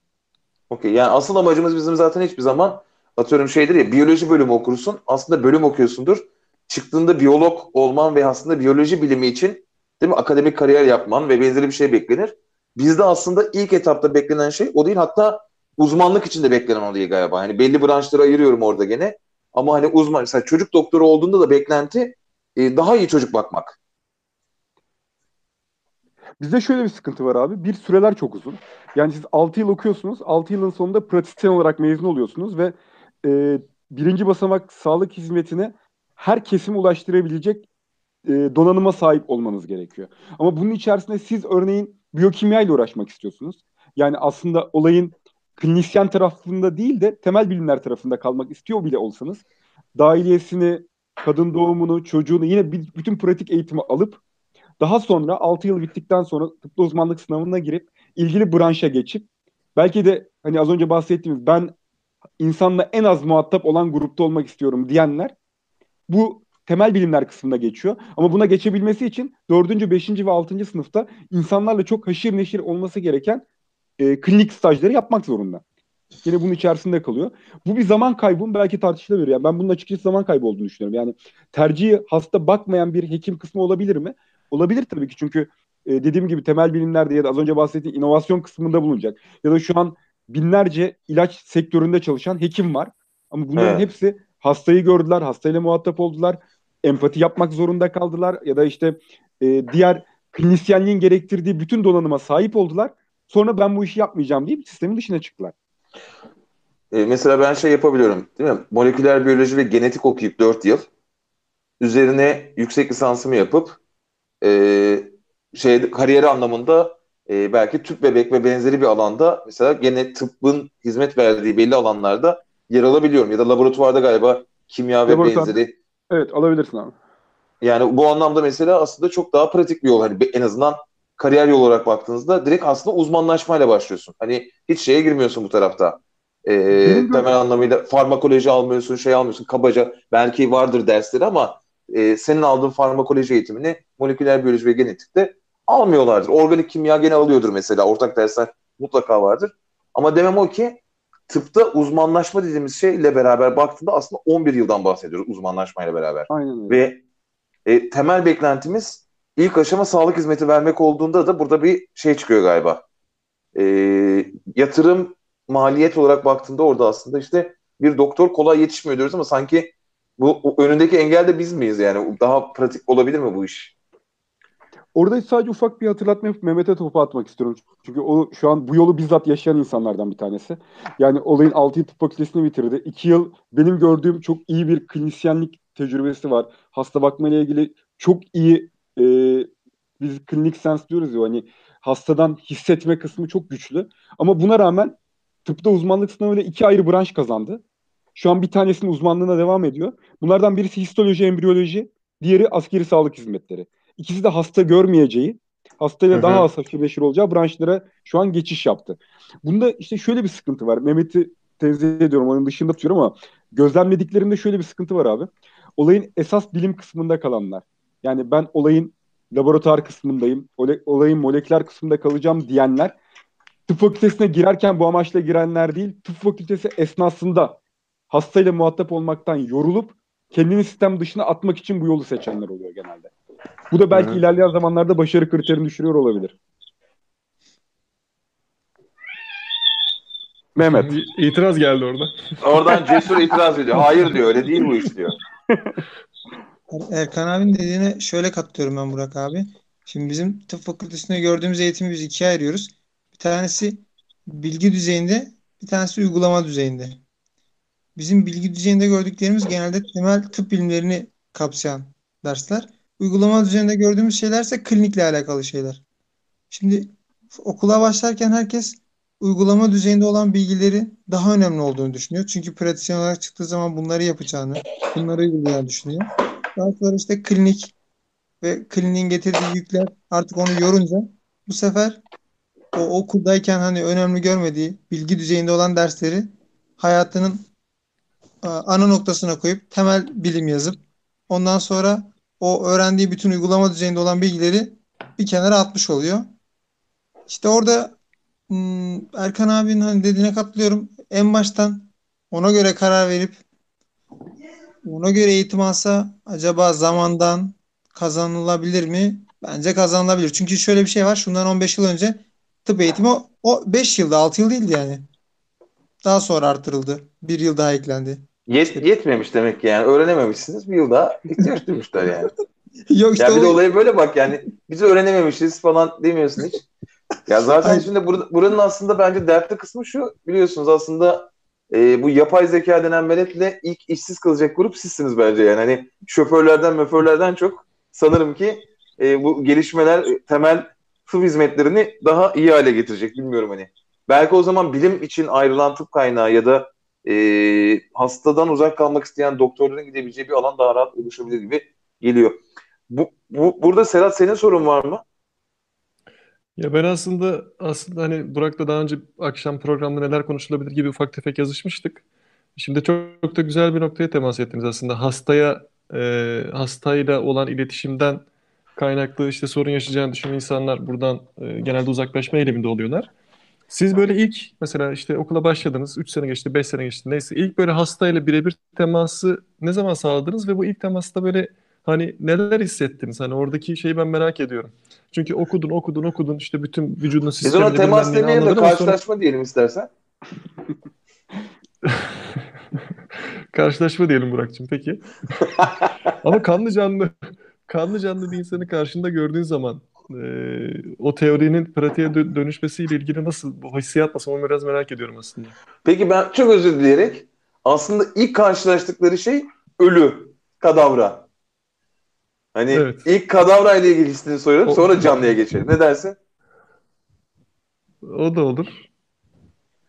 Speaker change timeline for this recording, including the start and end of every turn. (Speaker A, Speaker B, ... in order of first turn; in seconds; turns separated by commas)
Speaker A: 0.7-23.8, Speaker B: 26.4-37.6, Speaker B: 38.2-49.4, Speaker B: 50.0-54.2, Speaker B: 54.8-61.7, Speaker B: 62.4-65.3, Speaker B: 66.1-73.4, Speaker B: 74.0-75.6, Speaker B: 76.2-105.5, Speaker A: 93.5-93.8, Speaker A: 106.9-110.9, Speaker A: 111.8-113.8, Speaker A: 114.4-125.7, Speaker B: 125.1-125.6, Speaker B: 126.1-126.9, Speaker A: 127.6-157.0, Speaker B: 136.7-137.3, Speaker B: 156.3-156.8, Speaker A: 157.7-162.8, Speaker A: 163.5-173.7, Speaker B: 174.9-197.6, Speaker B: 198.1-222.9, Speaker A: 206.1-206.5, Speaker B: 223.7-227.6, Speaker B: 228.1-233.1, Speaker B: 233.7-236.3, Speaker A: 233.9-234.2, Speaker B: 240.6-240.9, Speaker C: 240.6-242.1, Speaker A: 242.4-245.2, Speaker B: 245.5-245.7, Speaker D: 246.7-257.0, Speaker D: 257.9-265.8, Speaker D: 266.5-277.7, Speaker D: 278.4-282.0, Speaker D: 282.7-287.4, Speaker D: 288.4-290.8, Speaker D: 291.3-296.3, Speaker D: 297.3-297.9, Speaker D: 298.5-303.4, Speaker D: 304.8-315.0, Speaker D: 316.0-318.8, Speaker A: 318.5-322.3, Speaker D: 322.9-323.6, Speaker A: 323.2-326.6, Speaker A: 327.3-355.0, Speaker C: 356.6-362.0, Speaker C: 362.6-368.2, Speaker C: 368.8-373.1, Speaker C: 373.7-388.9, Speaker A: 387.4-389.9, Speaker C: 393.5-395.1, Speaker C: 396.2-397.1, Speaker C: 397.6-405.5, Speaker A: 405.8-411.2, Speaker A: 412.5-416.2, Speaker C: 412.7-413.1, Speaker C: 414.6-415.4, Speaker C: 418.0-418.9